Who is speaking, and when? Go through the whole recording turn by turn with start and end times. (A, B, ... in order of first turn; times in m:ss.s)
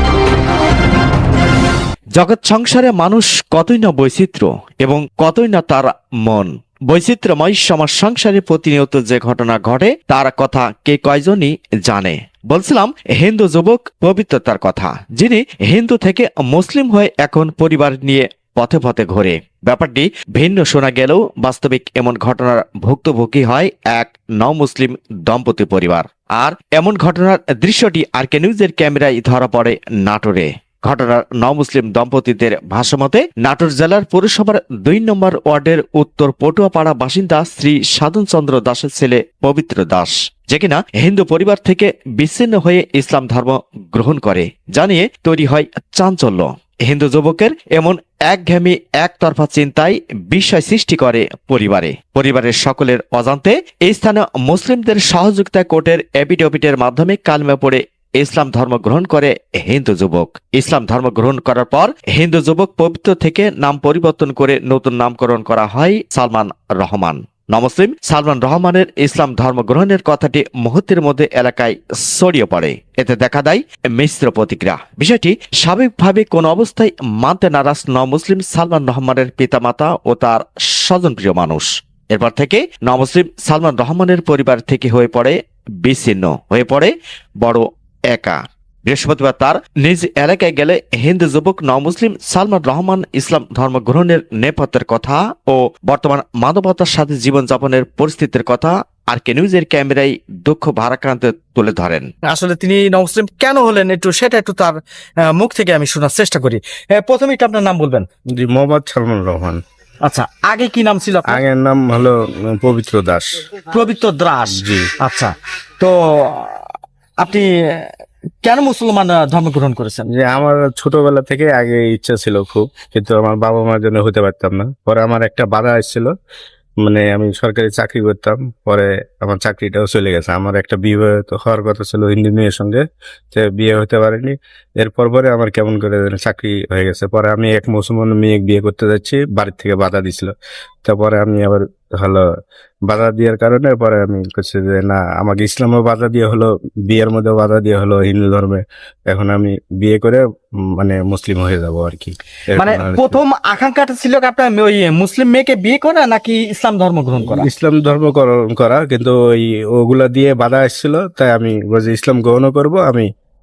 0:02.1-1:42.1 A
1:42.3-1:48.0 B
1:48.3-1:49.6 C
1:50.0-1:51.4 B
1:51.3-1:53.4 C
1:53.7-1:56.7 B
1:54.5-1:54.9 C
1:57.2-1:57.9 B
1:58.4-2:00.0 B
2:00.1-2:06.1 C
2:06.8-2:20.3 C
2:20.8-2:22.2 C
2:22.9-2:30.2 C
2:30.8-2:33.2 C
2:32.6-2:37.5 B
2:37.2-2:43.1 C